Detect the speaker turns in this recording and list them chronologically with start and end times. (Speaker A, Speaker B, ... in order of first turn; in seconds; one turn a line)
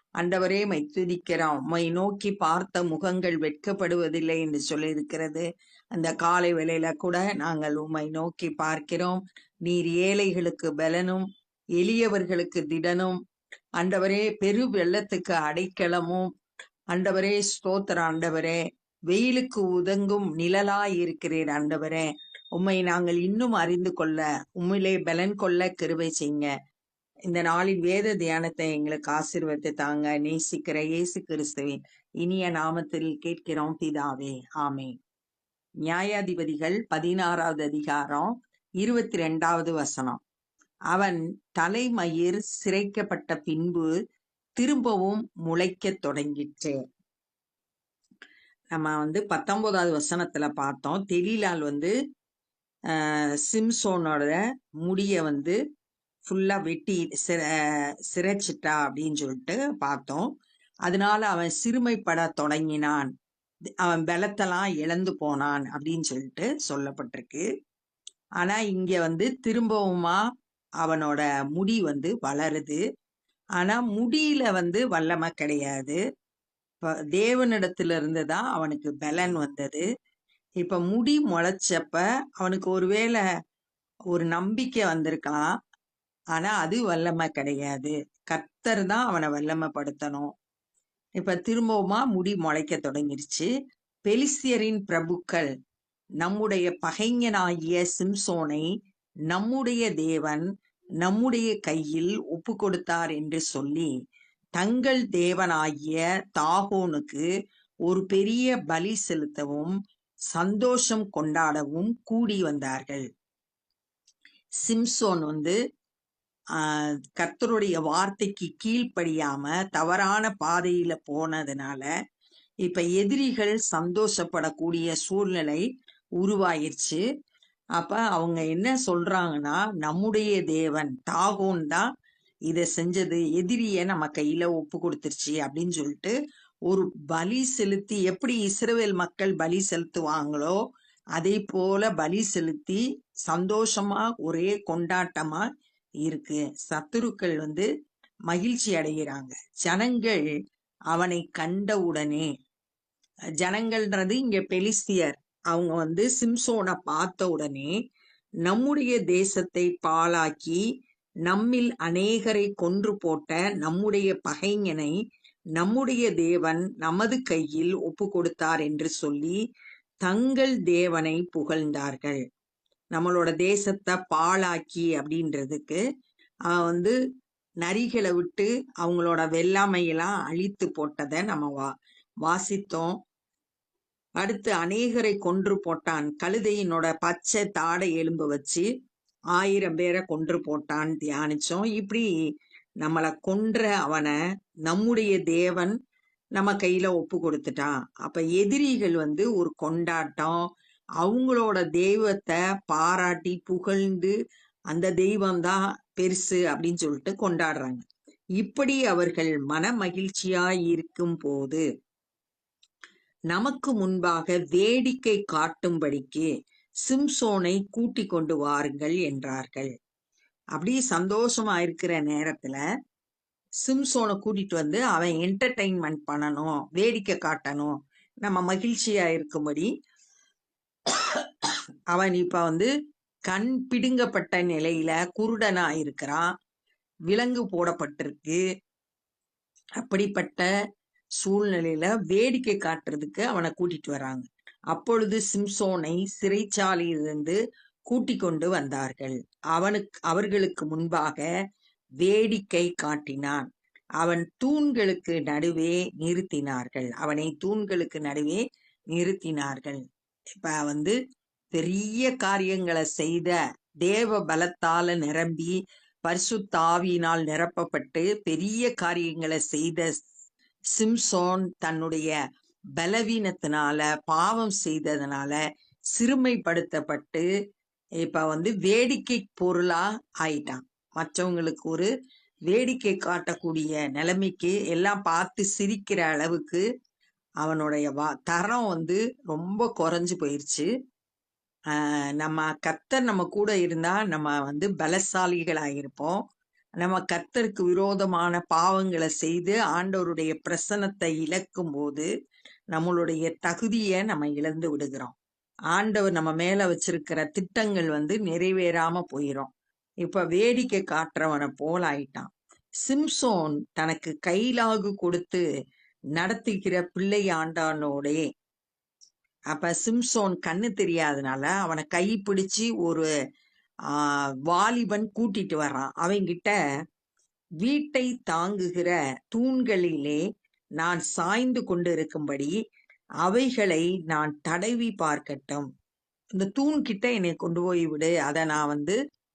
Speaker A: 0.2-11.3
Speaker A: 11.8-13.2
Speaker A: 13.8-16.3
Speaker A: 16.9-26.5
Speaker A: 27.3-34.9
Speaker A: 35.9-40.2
Speaker A: 40.9-43.9
Speaker A: 44.6-46.8
Speaker A: 48.7-51.9
Speaker A: 52.9-55.6
Speaker A: 56.2-57.5
Speaker A: 58.1-60.3
Speaker A: 60.9-63.1
Speaker A: 63.8-67.5
Speaker A: 68.4-70.2
Speaker A: 70.8-72.8
Speaker A: 73.6-76.0
Speaker A: 77.1-79.8
Speaker A: 80.6-83.2
Speaker A: 84.1-85.4
Speaker A: 86.3-90.3
Speaker A: 91.2-93.5
Speaker A: 94.1-95.5
Speaker A: 96.2-98.7
Speaker A: 99.3-100.5
Speaker A: 101.0-103.9
Speaker A: 104.6-107.2
Speaker A: 107.9-109.8
Speaker A: 110.3-113.1
Speaker A: 114.6-115.6
Speaker A: 116.6-121.9
Speaker A: 122.7-125.6
Speaker A: 126.2-127.0
Speaker A: 127.8-131.9
Speaker A: 132.5-136.2
Speaker A: 136.7-140.6
Speaker A: 141.2-145.5
Speaker A: 146.1-147.7
Speaker A: 148.3-150.2
Speaker A: 150.9-152.3
Speaker A: 153.4-157.7
Speaker A: 158.5-160.6
Speaker A: 161.3-164.9
Speaker A: 165.6-169.4
Speaker A: 170.0-172.2
Speaker A: 172.9-175.8
Speaker A: 176.5-176.9
Speaker A: 177.6-181.7
Speaker A: 182.2-183.0
Speaker A: 184.2-188.7
Speaker A: 189.4-192.1
Speaker A: 192.8-194.2
Speaker A: 194.7-195.8
Speaker A: 196.4-200.5
Speaker A: 201.0-204.1
Speaker A: 204.7-207.8
Speaker A: 208.4-211.6
Speaker A: 213.3-216.3
Speaker A: 216.9-219.7
Speaker A: 220.6-222.6
Speaker A: 223.6-229.7
Speaker A: 230.9-232.7
Speaker A: 233.3-236.3
Speaker A: 237.1-238.4
Speaker A: 239.8-240.5
Speaker A: 241.2-251.3
Speaker A: 252.0-253.5
Speaker A: 254.0-259.8
Speaker A: 260.3-261.0
Speaker A: 261.5-269.9
Speaker A: 270.8-272.1
Speaker A: 272.8-275.4
Speaker A: 276.0-277.3
Speaker A: 278.0-281.9
Speaker A: 282.5-286.6
Speaker A: 287.4-290.7
Speaker A: 291.7-296.2
Speaker A: 296.8-302.1
Speaker A: 302.7-305.2
Speaker A: 305.7-309.5
Speaker A: 310.0-312.3
Speaker A: 312.9-315.4
Speaker A: 316.2-318.2
Speaker A: 319.5-323.1
Speaker A: 323.9-326.6
Speaker A: 327.6-330.2
Speaker A: 330.8-332.6
Speaker A: 333.2-335.7
Speaker A: 336.4-339.0